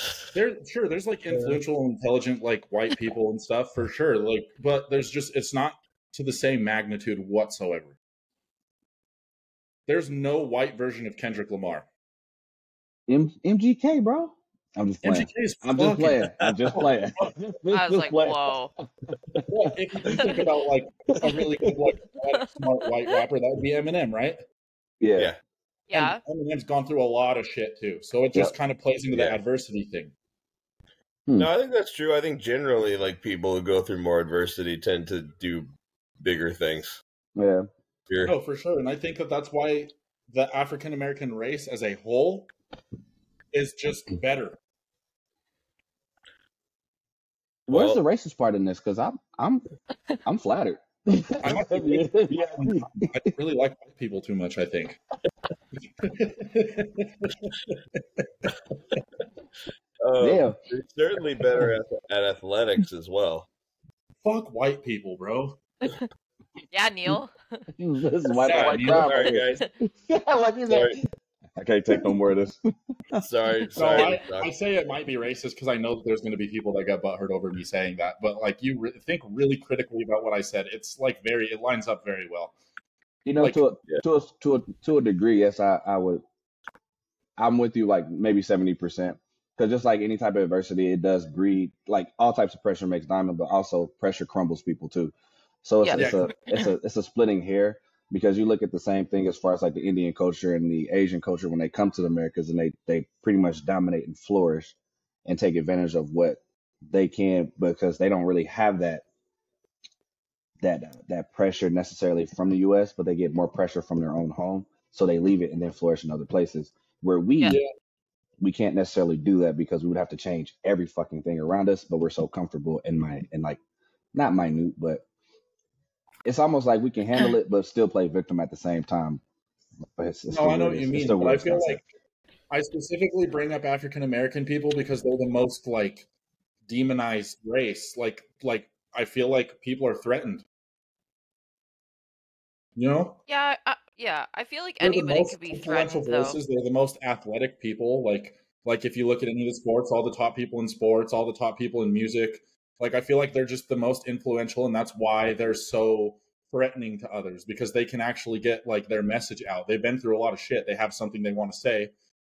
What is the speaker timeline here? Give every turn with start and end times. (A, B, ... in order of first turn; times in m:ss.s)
0:00.3-0:08.0 A
0:09.9-0:11.9 A
0:13.1-0:18.6 B
0:15.0-0:17.3 A
0:17.7-0:18.7 C
0:19.3-0:20.3 B
0:19.5-0:24.4 A
0:21.3-0:21.7 B
0:22.3-0:23.2 C
0:25.0-0:25.3 B
0:25.9-0:26.2 C
0:25.9-0:30.1 A
0:29.1-0:29.4 D
0:31.4-0:35.7 D
0:36.2-0:37.0 D
0:37.4-0:37.7 B
0:38.1-0:38.3 D
0:38.2-0:42.5 A
0:43.5-0:44.6 A
0:47.7-0:49.6 B
0:47.7-0:48.0 D
0:50.2-0:53.1 B
0:51.4-0:55.0 A
0:56.0-0:57.5 A
1:00.0-1:03.5 D
1:00.2-1:00.6 B
1:04.2-1:05.6 A
1:06.7-1:07.7 C
1:07.8-1:11.0 B
1:08.4-1:09.3 A
1:08.5-1:09.6 D
1:10.7-1:11.0 D
1:11.6-1:12.6 B
1:13.2-1:14.5 D
1:13.8-1:22.5 A
1:23.2-1:26.2 B
1:27.4-1:49.0 B
1:35.8-1:36.6 C
1:35.9-1:36.3 A
1:50.6-1:57.6 B
1:58.4-2:03.6 B
2:04.1-2:05.0 B
2:06.2-2:09.2 B
2:10.0-2:11.8 B
2:10.3-2:11.8 A
2:12.5-2:16.1 A
2:16.7-2:20.4 A
2:22.8-2:23.2 A
2:23.3-2:26.4 C
2:24.8-2:41.9 A